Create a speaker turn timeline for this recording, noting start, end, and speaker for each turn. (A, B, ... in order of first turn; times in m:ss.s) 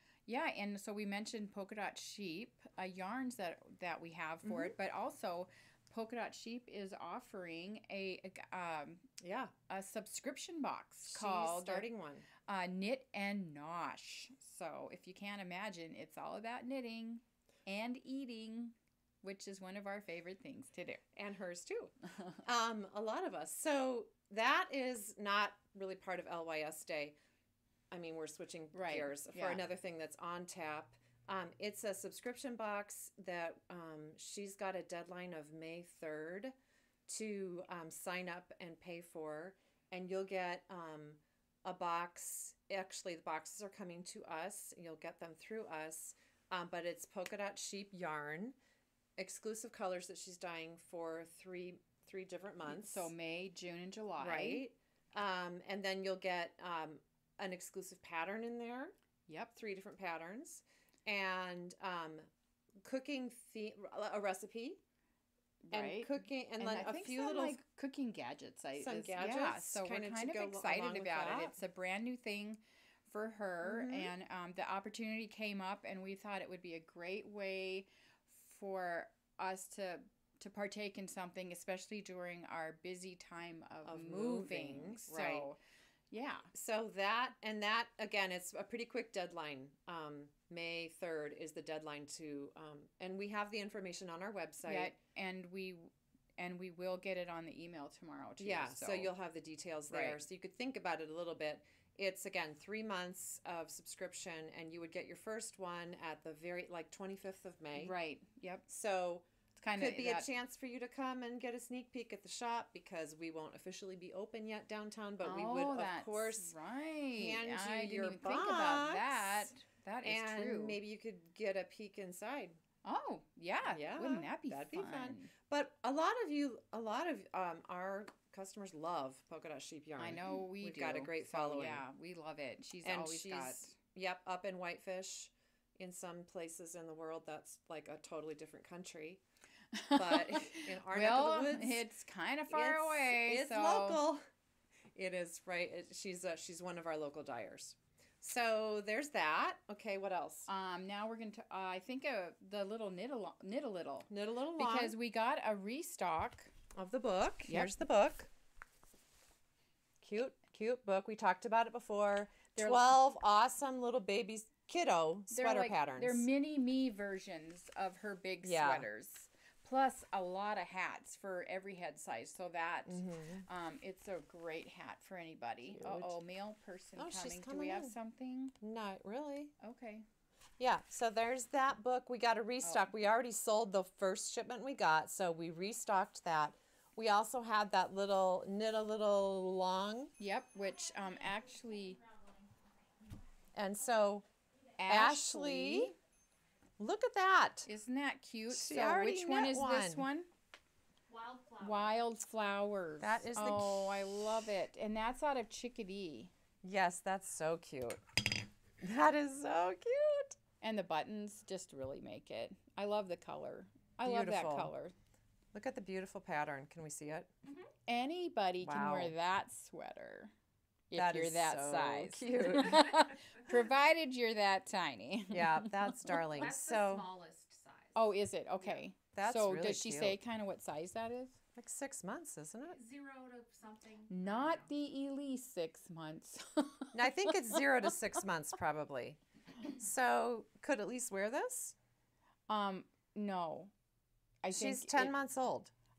0:00.3-0:09.0 A
0:04.4-0:04.7 B
0:09.2-0:09.5 B
0:09.7-0:11.9 A
0:11.1-0:12.2 B
0:12.4-0:21.0 A
0:21.1-0:27.1 B
0:27.9-0:36.5 B
0:28.7-0:29.6 A
0:37.1-0:48.6 B
0:49.2-0:53.1 B
0:52.6-0:54.6 A
0:54.2-0:58.9 B
0:59.3-0:59.5 A
0:59.6-1:02.3 B
1:02.8-1:04.8 B
1:05.6-1:25.6 A
1:05.7-1:07.6 B
1:08.8-1:11.6 B
1:13.6-1:14.1 B
1:23.8-1:25.5 B
1:26.1-1:26.5 A
1:26.5-1:34.9 B
1:34.6-1:39.1 A
1:38.4-1:47.9 B
1:39.9-1:40.2 A
1:47.7-1:48.6 A
1:48.7-1:56.5 B
1:49.6-1:50.3 A
1:55.2-2:00.8 A
1:57.1-2:02.6 B
2:02.8-2:05.3 A
2:03.6-2:11.8 B
2:10.0-2:13.8 A
2:12.8-2:19.2 B
2:19.7-2:24.0 A
2:19.9-2:21.8 B
2:22.5-2:24.2 B
2:24.9-2:30.5 B
2:30.5-2:36.5 A
2:34.1-2:35.0 B
2:36.7-2:38.3 B
2:37.4-2:37.7 A
2:40.0-2:46.2 B
2:42.5-2:42.9 A
2:45.3-2:58.5 A
2:48.4-2:48.9 B
2:52.8-2:53.4 B
2:55.7-2:56.2 B
2:57.0-2:58.0 B
2:58.6-2:59.5 B
2:59.6-3:00.0 A
3:00.6-3:10.1 B
3:02.6-3:02.9 A
3:10.2-3:12.0 A
3:13.5-3:14.2 B
3:14.8-3:15.9 A
3:14.8-3:15.9 B
3:16.8-3:17.7 B
3:17.6-3:20.3 A
3:18.5-3:20.1 B
3:21.1-3:22.0 C
3:21.6-3:26.3 A
3:23.0-3:24.5 B
3:26.6-3:28.3 B
3:28.8-3:30.4 B
3:30.6-3:34.9 A
3:34.0-3:34.7 B
3:35.5-3:37.3 B
3:37.9-3:40.3 A
3:38.6-3:39.1 B
3:40.9-3:46.2 A
3:40.9-3:43.0 B
3:45.3-3:47.1 B
3:46.1-3:48.8 C
3:47.9-3:51.4 A
3:49.1-3:50.2 B
3:51.6-3:52.8 B
3:52.7-3:54.7 C
3:54.1-3:57.6 A
3:56.9-4:01.8 B
4:02.5-4:03.7 A
4:04.4-4:05.1 A
4:04.5-4:05.7 B